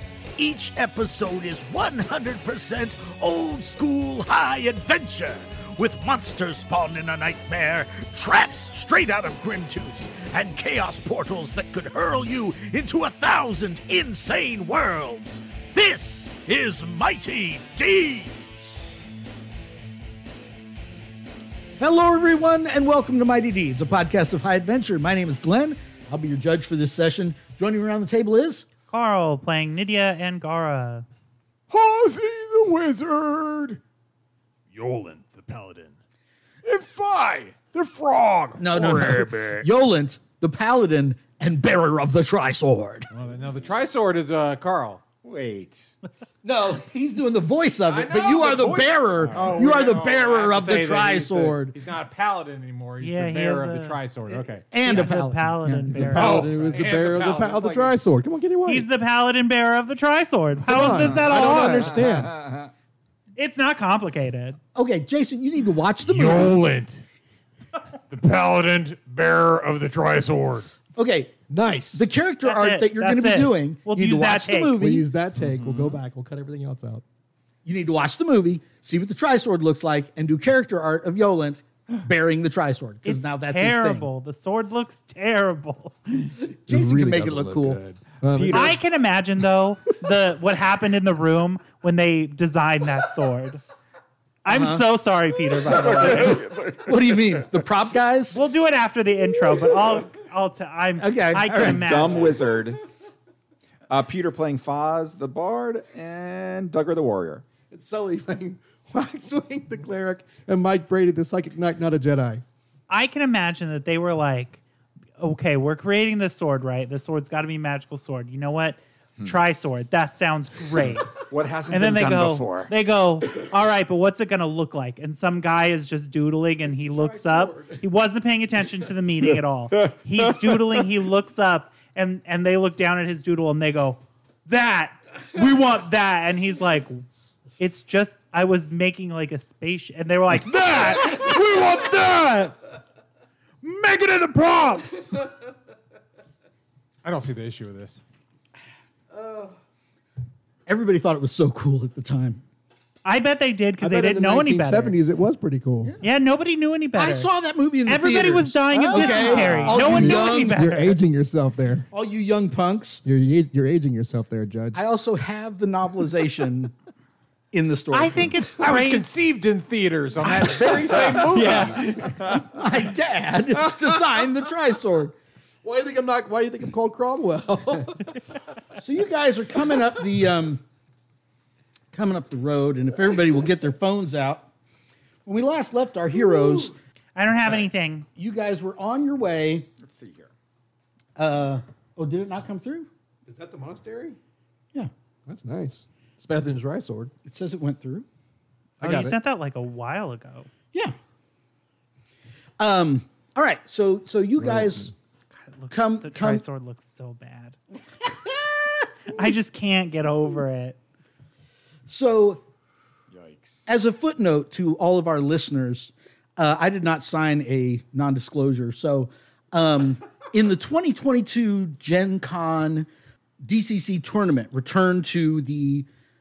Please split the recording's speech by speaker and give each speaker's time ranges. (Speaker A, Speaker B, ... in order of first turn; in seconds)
Speaker A: 0.4-18.8
Speaker B: 21.8-28.7, 38.6-43.1, 46.4-51.8, 54.3-56.3, 64.8-66.6, 70.9-71.3, 71.9-75.1, 77.7-84.1, 86.5-87.8, 94.5-94.9, 95.7-98.4, 101.0-102.2, 150.7-152.4, 155.8-156.1, 156.9-160.6, 161.9-163.0, 164.7-166.7, 167.5-168.3, 170.2-171.7, 172.3-175.1, 178.8-180.6, 181.9-184.5, 185.2-186.8, 188.2-189.7, 191.2-192.9, 197.2-198.1, 202.6-204.9, 205.7-206.4, 211.9-212.4, 213.7-222.9, 223.4-225.9
Speaker C: 28.9-31.1, 53.0-54.0, 54.8-56.9, 58.7-62.0, 63.4-64.6, 72.4-74.8, 83.0-86.4, 88.5-93.6, 94.5-96.4, 98.3-102.4, 112.9-114.6, 115.2-121.2, 121.7-137.1, 137.6-142.6, 143.6-145.2, 153.1-154.9, 156.0-157.3, 157.9-161.0, 167.9-169.1, 171.3-172.4, 187.2-188.1, 198.8-200.5, 205.4-207.6, 209.1-210.8
Speaker D: 31.7-33.8, 34.7-36.0, 36.6-39.6, 43.1-45.0, 47.9-54.7, 56.1-58.0, 66.0-67.0, 68.1-70.7, 147.0-148.0, 159.0-159.9, 168.6-171.9
Speaker E: 45.2-45.9, 49.2-49.6, 60.8-62.7, 88.3-88.8, 95.7-97.4, 101.6-102.8, 103.9-107.5, 121.1-122.7, 129.8-130.6, 171.6-172.5, 189.8-190.3, 213.1-213.7
Speaker F: 55.9-58.9, 60.6-62.5, 71.5-72.1, 74.8-77.0, 86.7-88.8, 107.7-112.4, 126.7-127.8, 149.1-149.5, 153.8-155.9, 159.7-161.9, 163.0-164.8, 175.6-178.2, 186.3-186.7, 193.3-194.2, 195.3-197.1, 198.8-199.2, 204.4-204.9